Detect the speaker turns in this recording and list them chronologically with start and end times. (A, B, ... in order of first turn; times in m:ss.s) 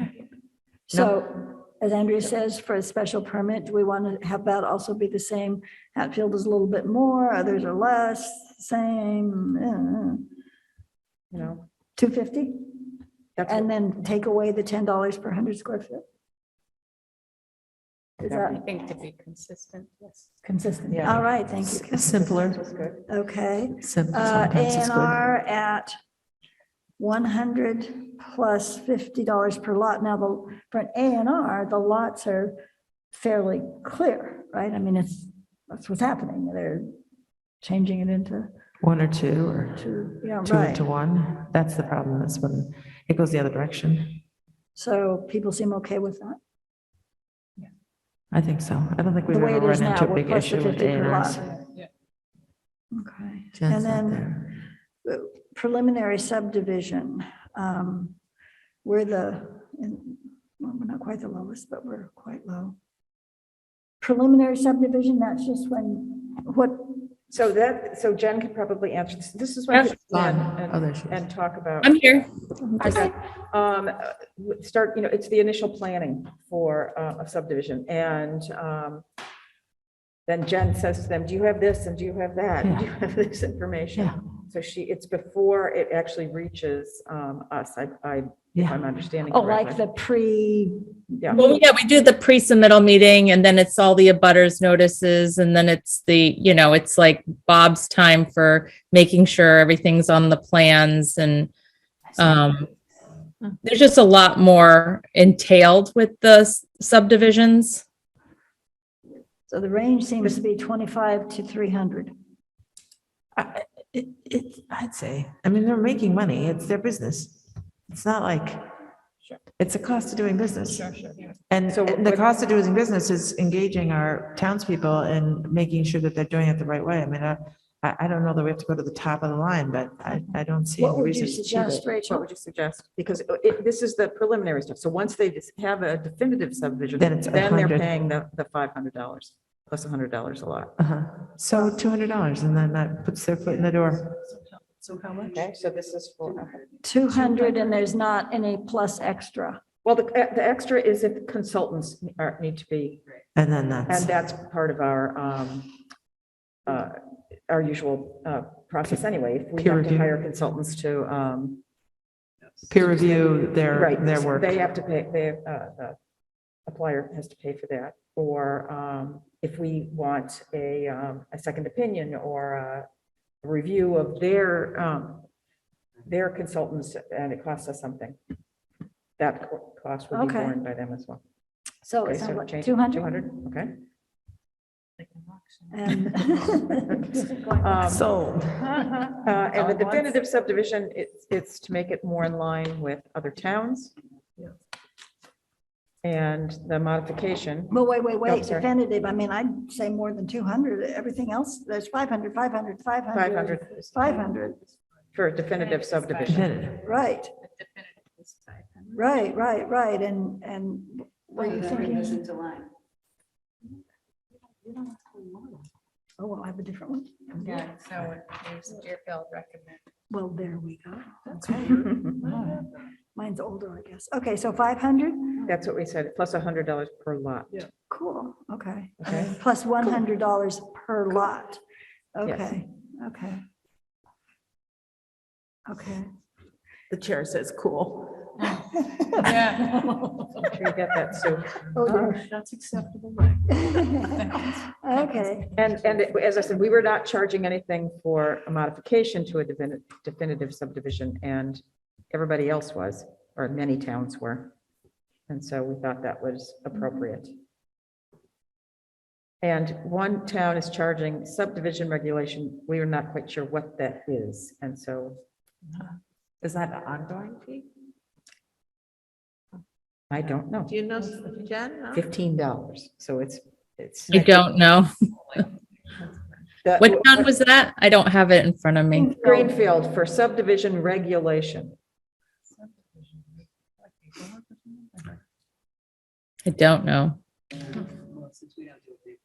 0:00.9-0:10.3 A
0:11.3-0:11.7 B
0:12.0-0:16.0 A
0:13.4-0:13.7 B
0:18.2-0:18.6 A
0:18.3-0:18.6 B
0:18.6-0:20.2 C
0:20.4-0:22.1 A
0:20.9-0:21.3 B
0:21.6-0:22.6 D
0:22.1-0:23.0 B
0:23.1-0:25.9 A
0:23.8-0:25.2 D
0:27.0-0:32.6 A
0:33.1-0:36.9 A
0:37.6-0:38.5 A
0:38.8-0:44.2 D
0:39.8-0:40.8 A
0:44.8-0:46.4 A
0:48.3-0:51.5 D
0:49.3-0:51.5 A
0:51.6-0:51.9 C
0:52.9-0:58.2 A
0:53.6-0:54.5 D
0:58.8-1:02.7 A
1:04.0-1:07.1 A
1:07.3-1:12.2 B
1:09.8-1:11.2 D
1:11.8-1:13.1 E
1:12.8-1:19.0 B
1:20.2-1:29.8 B
1:29.3-1:31.6 A
1:31.3-1:41.5 E
1:42.2-1:42.7 E
1:43.6-1:47.8 E
1:49.5-1:52.1 A
1:53.4-1:58.7 D
1:59.6-2:00.9 D
2:00.8-2:01.3 C
2:01.5-2:11.8 D
2:01.7-2:02.3 B
2:10.8-2:12.2 A
2:11.5-2:20.7 B
2:17.0-2:17.9 D
2:20.8-2:24.2 D
2:21.5-2:21.8 A
2:24.8-2:25.3 C
2:25.3-2:26.6 B
2:26.8-2:29.6 A
2:27.1-2:27.9 C
2:29.8-2:33.0 B
2:33.4-2:34.1 D
2:33.9-2:35.8 B
2:36.7-2:41.6 B
2:39.6-2:40.1 D
2:42.7-2:44.6 D
2:42.8-2:46.0 B
2:46.7-2:52.9 B
2:53.4-2:55.3 B
2:56.0-2:58.2 B
2:59.2-3:01.2 B
3:00.1-3:00.6 A
3:01.8-3:03.2 A
3:02.0-3:03.8 B
3:05.0-3:05.7 C
3:05.7-3:07.8 A
3:06.8-3:08.1 B
3:07.8-3:09.0 D
3:09.2-3:13.9 B
3:09.6-3:10.0 C
3:16.0-3:18.7 B
3:17.7-3:24.6 A
3:23.1-3:24.0 B
3:25.1-3:26.5 B
3:25.5-3:26.4 C
3:26.3-3:26.8 D
3:26.8-3:27.3 A
3:27.4-3:29.1 C
3:28.9-3:32.3 A
3:31.4-3:32.7 C
3:34.6-3:35.6 C
3:36.2-3:37.8 A
3:37.4-3:39.8 C
3:40.1-3:42.5 A
3:41.5-3:42.7 C
3:41.6-3:42.3 B
3:43.2-3:45.5 A
3:45.4-3:47.7 B
3:47.9-3:51.6 A
3:49.0-3:49.4 B
3:52.2-3:53.4 A
3:52.2-3:52.6 B
3:55.7-3:56.1 A
3:56.9-3:58.3 D
3:59.0-3:59.6 A
3:59.2-4:00.3 C
4:00.4-4:02.2 B
4:01.7-4:02.4 A
4:02.1-4:05.2 C
4:03.5-4:05.6 A
4:05.6-4:14.5 B
4:15.3-4:17.3 B
4:19.4-4:25.2 B
4:26.4-4:27.7 D
4:30.1-4:30.7 B
4:30.7-4:32.0 D
4:31.9-4:34.5 B
4:34.1-4:35.4 E
4:36.6-4:37.3 B
4:36.8-4:39.1 E
4:38.9-4:39.5 A
4:39.2-4:41.8 B
4:42.6-4:43.2 C
4:43.9-4:45.2 C
4:46.4-4:47.2 E
4:47.9-4:49.2 C